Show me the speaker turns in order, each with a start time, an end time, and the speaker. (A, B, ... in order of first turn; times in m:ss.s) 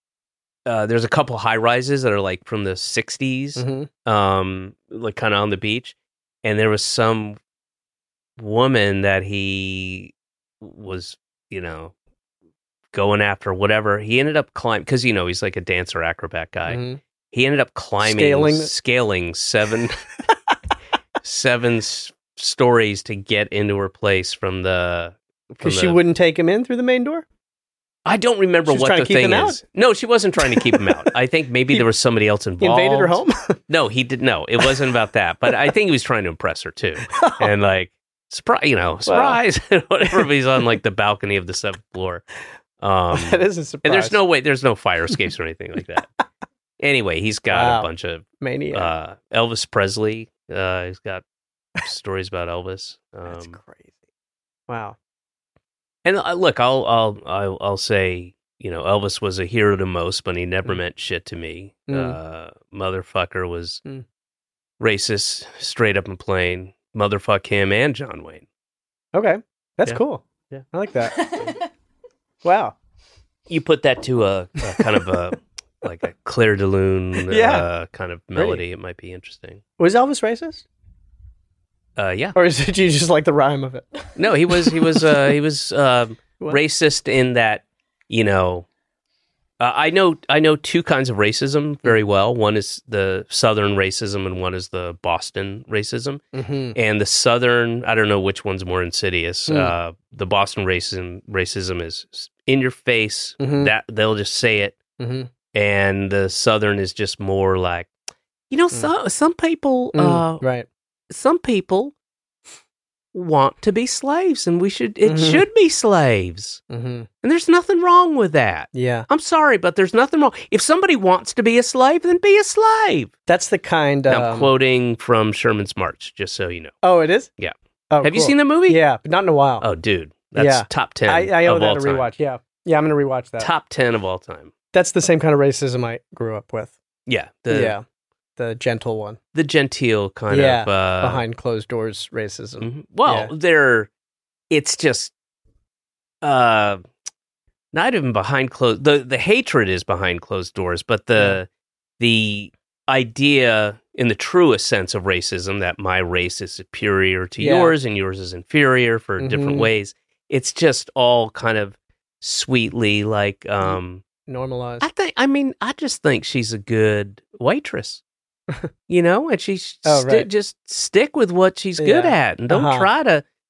0:00.6-0:07.4 A
0:03.6-0:03.9 B
0:08.4-0:11.9 A
0:12.9-0:20.0 A
0:16.7-0:17.0 B
0:18.0-0:18.7 B
0:21.2-0:26.0 A
0:25.6-0:27.2 B
0:28.0-0:42.2 A
0:28.7-0:29.6 B
0:30.4-0:31.0 B
0:32.6-0:33.6 B
0:37.0-0:37.5 B
0:39.0-0:39.4 B
0:42.8-0:46.1 A
0:43.1-0:44.2 B
0:46.8-0:51.2 A
0:47.5-0:47.9 B
0:48.4-0:48.9 B
0:51.8-0:53.6 A
0:53.3-0:53.9 B
0:54.7-0:55.0 B
0:56.0-1:03.8 A
1:01.9-1:02.2 B
1:04.8-1:08.4 A
1:09.1-1:11.5 B
1:12.4-1:12.8 B
1:13.5-1:19.6 A
1:17.3-1:17.6 B
1:18.3-1:18.6 B
1:19.8-1:20.6 B
1:22.0-1:22.3 A
1:22.3-1:25.1 B
1:24.2-1:28.7 A
1:29.6-1:36.2 A
1:36.3-1:36.8 B
1:36.7-1:44.8 A
1:39.5-1:39.7 B
1:43.4-1:43.7 B
1:45.0-1:45.3 B
1:45.5-1:47.9 A
1:48.5-1:50.4 A
1:49.9-1:50.7 B
1:51.1-1:51.9 A
1:53.1-1:56.6 A
1:55.0-1:55.4 B
1:56.7-1:57.1 B
1:57.2-2:03.1 A
1:58.7-1:59.1 B
2:03.3-2:04.5 B
2:04.1-2:06.7 A
2:06.8-2:07.3 B
2:07.4-2:08.8 A
2:07.9-2:09.6 B
2:09.6-2:12.1 A
2:10.3-2:13.5 B
2:13.4-2:14.5 A
2:14.7-2:16.8 B
2:17.1-2:17.8 A
2:17.5-2:17.8 B
2:18.4-2:19.2 B
2:19.3-2:21.2 A
2:20.3-2:23.3 B
2:22.6-2:23.9 A
2:24.5-2:25.1 A
2:26.2-2:26.8 A
2:27.7-2:31.5 A
2:32.0-2:44.0 A
2:37.4-2:37.7 B
2:39.2-2:39.7 B
2:43.6-2:44.8 B
2:44.8-2:48.0 A
2:48.9-2:53.2 A
2:49.8-2:50.3 B
2:51.8-2:52.9 B